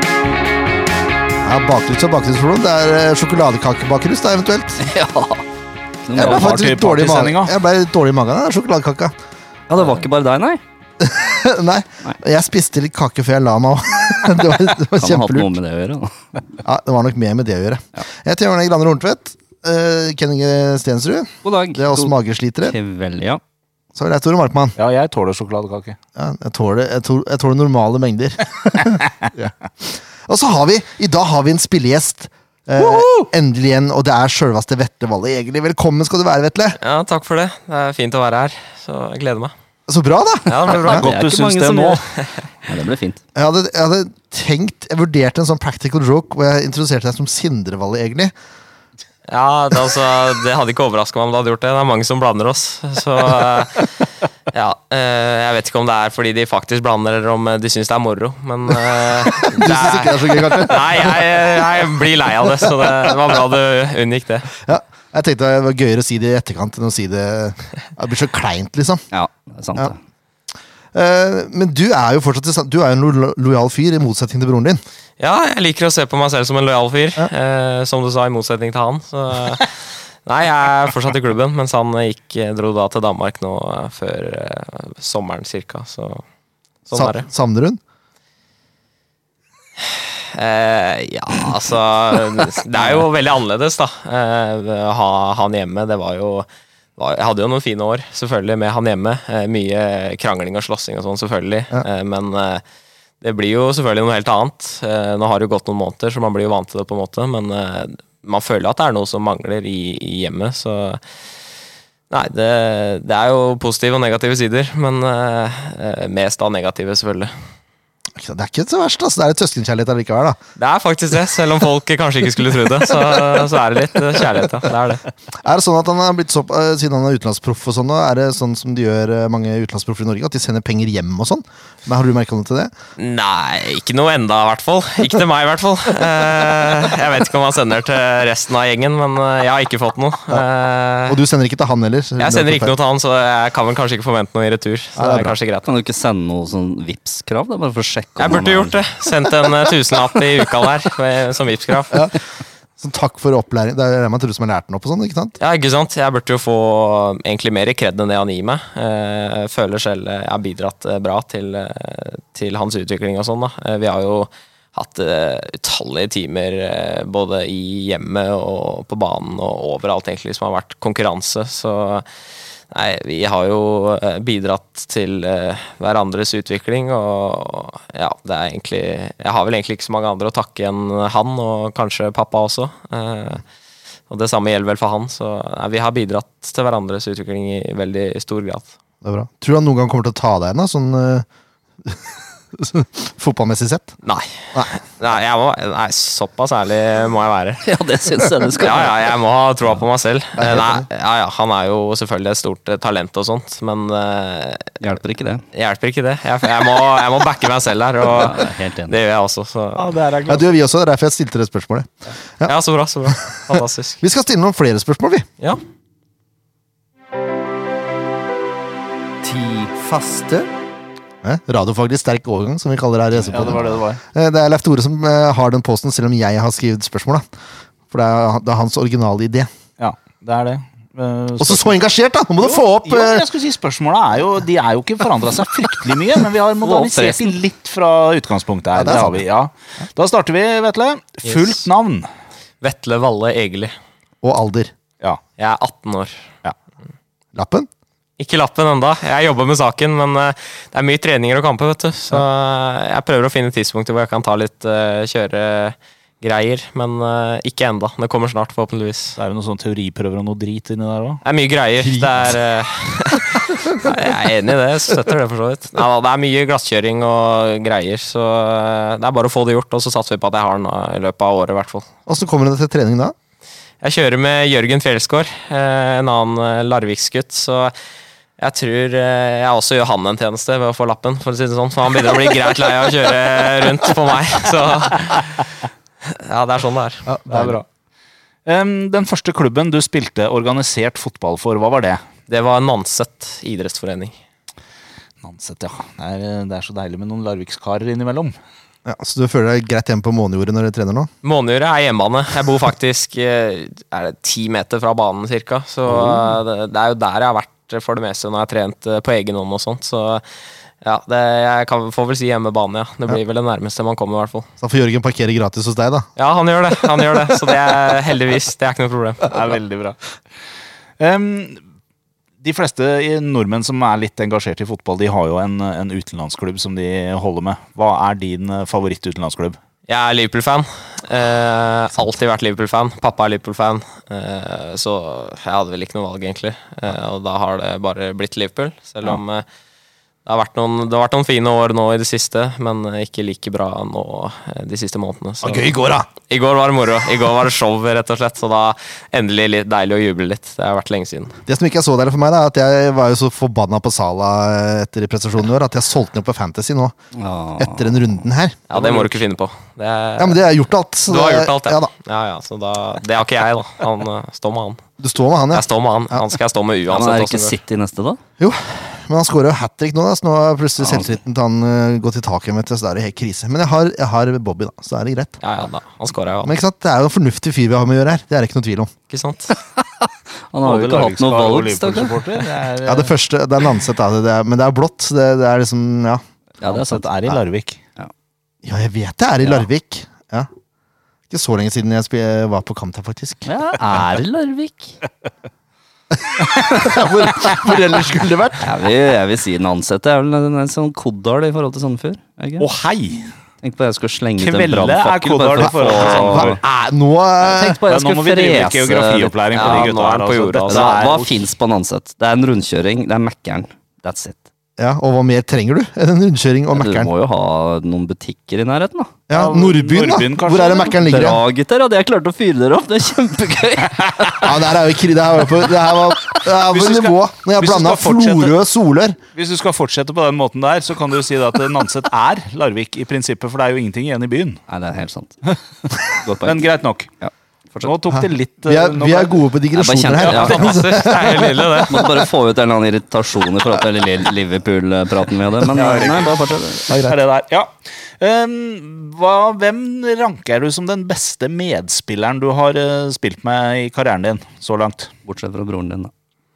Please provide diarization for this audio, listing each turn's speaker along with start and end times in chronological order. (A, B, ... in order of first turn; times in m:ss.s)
0:01.4-0:04.9 A
0:04.8-0:05.4 B
0:06.0-0:06.5 B
0:06.2-0:09.2 A
0:06.2-0:07.6 C
0:09.7-0:10.6 B
0:11.0-0:15.6 A
0:14.9-0:16.2 B
0:16.6-0:22.8 A
0:21.4-0:23.4 B
0:24.0-0:24.8 A
0:24.8-0:26.0 C
0:26.2-0:36.8 A
0:36.8-0:39.5 D
0:39.9-0:41.1 A
0:40.4-0:41.0 D
0:40.7-0:42.0 B
0:40.9-0:42.0 C
0:42.1-0:42.4 D
0:42.7-0:43.2 B
0:43.3-0:48.3 A
0:49.3-0:54.0 D
0:54.5-1:04.5 D
0:59.3-1:01.4 A
1:04.6-1:09.0 A
1:09.1-1:10.0 B
1:10.9-1:14.8 A
1:15.2-1:26.2 D
1:26.9-1:27.3 D
1:26.9-1:27.8 A
1:30.0-1:42.6 D
1:43.2-1:51.0 D
1:52.1-1:57.3 D
1:58.2-2:00.4 A
2:00.6-2:05.0 D
2:05.3-2:12.7 A
2:13.0-2:21.2 D
2:21.1-2:22.7 A
2:22.2-2:25.7 D
2:25.0-2:25.3 A
2:25.6-2:28.8 B
2:28.2-2:32.1 D
2:31.9-2:32.2 A
2:32.8-2:35.4 A
2:35.4-2:52.1 D
2:52.7-3:03.4 D
3:04.1-3:08.8 D
3:09.0-3:11.2 A
3:11.8-3:14.0 A
3:14.0-3:17.6 D
3:17.6-3:19.0 B
3:18.6-3:24.8 D
3:20.4-3:20.8 A
3:24.8-3:25.4 B
3:25.5-3:29.9 D
3:28.0-3:29.0 B
3:29.8-3:30.5 C
3:30.3-3:32.5 A
3:32.4-3:34.0 D
3:33.1-3:35.3 A
3:41.2-3:47.2 A
3:43.2-3:44.0 C
3:47.9-3:49.5 A
3:49.8-3:51.8 C
3:51.4-3:53.2 A
3:52.4-4:02.1 C
3:56.6-3:57.4 B
3:58.8-3:59.2 A
4:02.6-4:03.8 D
4:04.2-4:04.7 A
4:05.4-4:06.2 D
4:07.3-4:07.7 A
4:08.2-4:19.2 D
4:19.2-4:21.2 C
4:21.2-4:31.9 D
4:21.8-4:22.1 A
4:32.1-4:33.2 A
4:33.8-4:37.8 D
4:38.4-4:45.4 D
4:46.0-4:47.1 D
4:47.1-4:47.6 A
4:47.3-4:47.6 C
4:48.5-4:52.0 C
4:52.3-4:54.2 D
4:55.2-4:58.4 C
4:58.8-5:01.1 A
5:01.2-5:10.2 D
5:10.8-5:14.5 D
5:14.6-5:16.1 A
5:16.2-5:19.5 D
5:19.3-5:20.0 C
5:21.0-5:21.6 C
5:22.4-5:29.6 C
5:29.9-5:39.4 D
5:40.2-5:45.7 D
5:45.4-5:46.1 A
5:46.2-5:51.4 D
5:51.5-5:57.0 A
5:57.1-5:58.2 B
5:57.6-5:59.1 A
5:58.7-6:00.4 D
6:00.2-6:01.9 A
6:01.1-6:04.8 D
6:05.0-6:05.6 A
6:05.5-6:07.6 D
6:06.9-6:08.2 B
6:08.4-6:15.4 A
6:15.4-6:16.5 D
6:16.4-6:18.9 A
6:19.1-6:19.6 D
6:19.7-6:22.5 B
6:20.6-6:23.2 C
6:22.8-6:26.2 A
6:26.6-6:27.4 B
6:26.6-6:27.8 C
6:28.6-6:30.5 A
6:31.3-6:33.6 A
6:33.5-6:35.0 B
6:36.2-6:38.7 A
6:38.6-6:42.7 B
6:42.6-6:43.3 C
6:43.6-6:46.6 B
6:44.4-6:46.6 C
6:45.6-6:47.8 A
6:47.4-6:49.9 B
6:47.9-6:51.4 C
6:49.5-6:51.0 D
6:50.7-6:54.4 B
6:54.8-6:57.1 A
6:56.7-6:59.2 B
6:59.3-7:01.4 A
6:59.3-7:01.0 C
7:00.6-7:04.7 B
7:04.4-7:09.2 A
7:06.7-7:08.6 C
7:09.3-7:14.6 C
7:14.7-7:15.4 B
7:16.1-7:17.9 B
7:16.4-7:17.1 C
7:17.8-7:19.4 C
7:18.1-7:22.3 A
7:19.7-7:21.1 B
7:20.2-7:20.5 C
7:20.3-7:22.1 D
7:21.8-7:27.0 B
7:25.7-7:35.1 C
7:26.9-7:27.2 A
7:35.2-7:36.1 B